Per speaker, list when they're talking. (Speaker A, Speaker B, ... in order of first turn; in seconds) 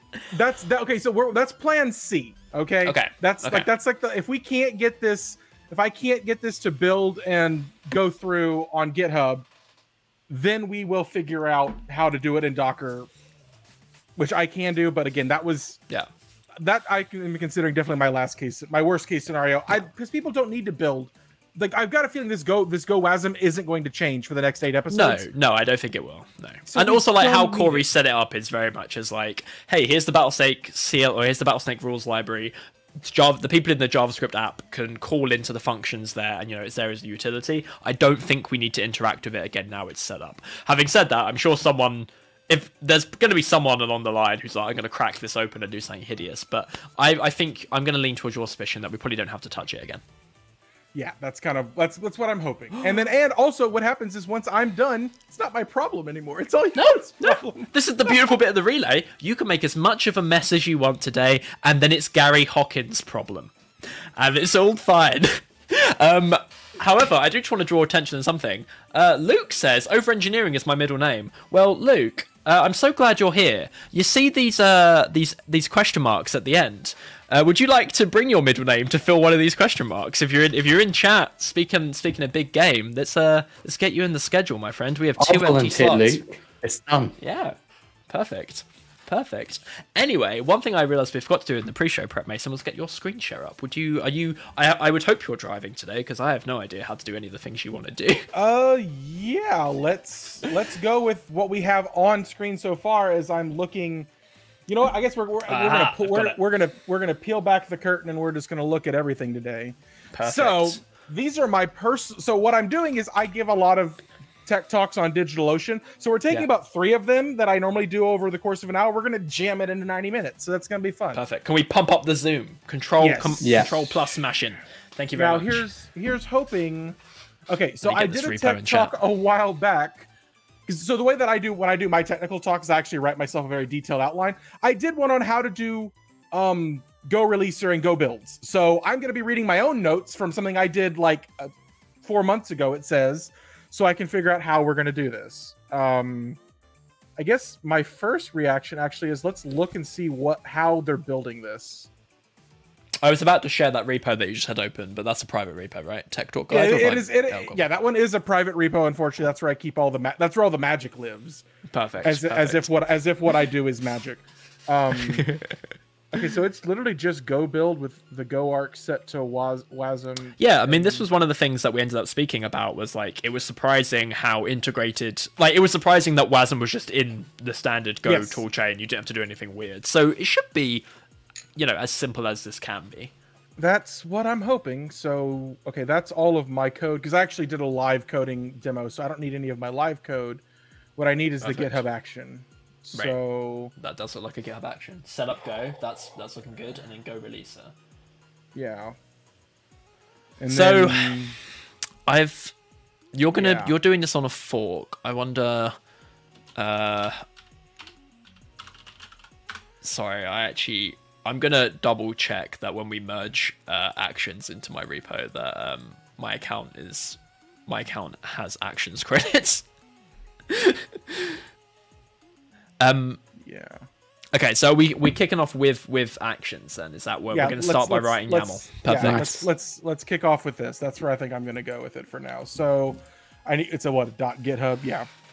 Speaker A: 0.3-9.4, 10.3-13.1, 14.2-15.8, 16.6-25.2, 26.7-27.9, 50.9-58.1, 98.3-104.1, 104.7-121.2, 123.0-123.7, 125.1-127.0, 127.5-130.1, 130.7-141.5, 142.0-146.4, 147.2-151.9, 156.5-161.4, 162.0-165.3, 166.1-171.1, 178.1-178.4, 183.6-190.4, 191.0-193.7, 198.5-198.9, 200.4-201.3, 203.3-203.7, 223.4-223.8, 227.3-235.1
Speaker B: 2.8-3.7, 24.9-50.0, 56.7-63.5, 64.2-86.2, 87.2-87.5, 88.1-98.3, 105.5-106.4, 110.1-110.8, 121.1-125.6, 127.8-128.9, 153.0-157.6, 161.7-162.7, 165.1-165.6, 170.4-180.8, 181.6-183.1, 191.4-191.8, 193.8-197.7, 200.5-201.3, 202.1-202.5, 203.1-205.8, 206.6-207.2, 209.8-219.6, 220.5-221.4, 222.8-223.2, 224.3-229.5
Speaker C: 85.2-87.1, 123.4-123.8